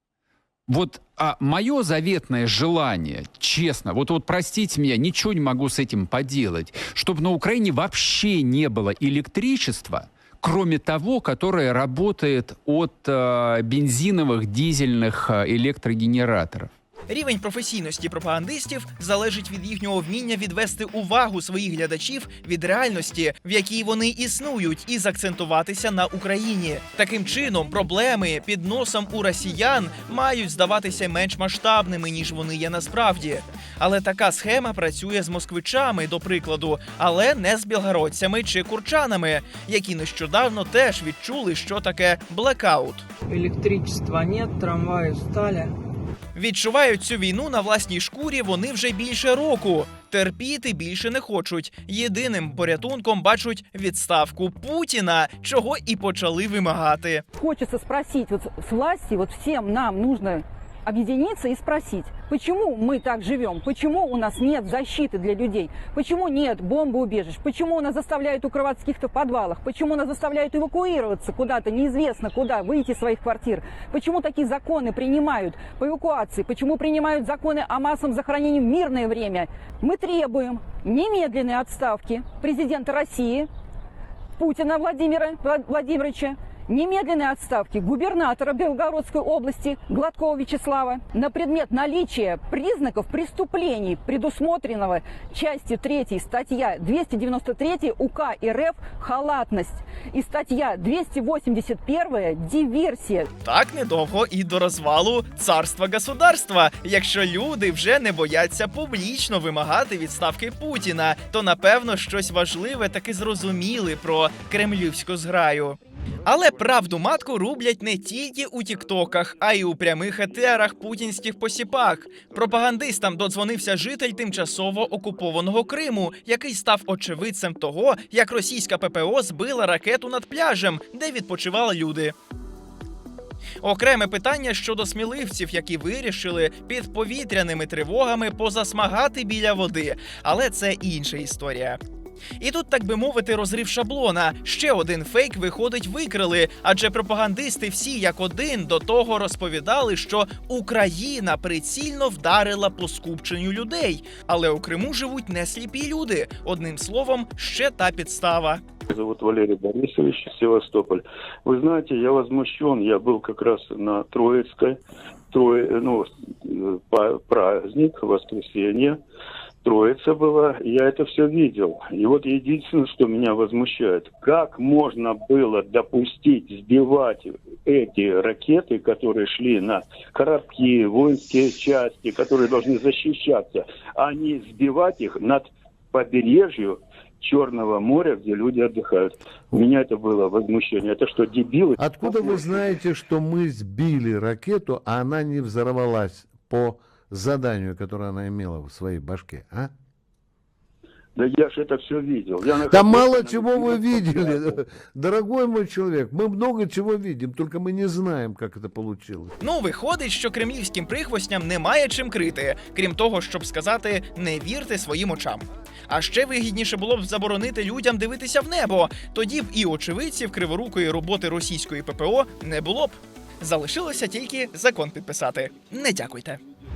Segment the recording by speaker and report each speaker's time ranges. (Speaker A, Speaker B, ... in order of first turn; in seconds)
Speaker A: 0.7-16.7
Speaker B: 17.1-43.0, 46.3-57.2, 103.4-132.1, 133.6-141.8, 142.4-158.6, 209.4-226.4
Speaker C: 43.3-45.7
Speaker D: 57.4-83.5, 84.4-103.3
Speaker E: 158.9-164.8, 165.3-169.0, 169.6-192.4, 201.2-204.5
Speaker F: 191.8-199.7, 202.6-209.3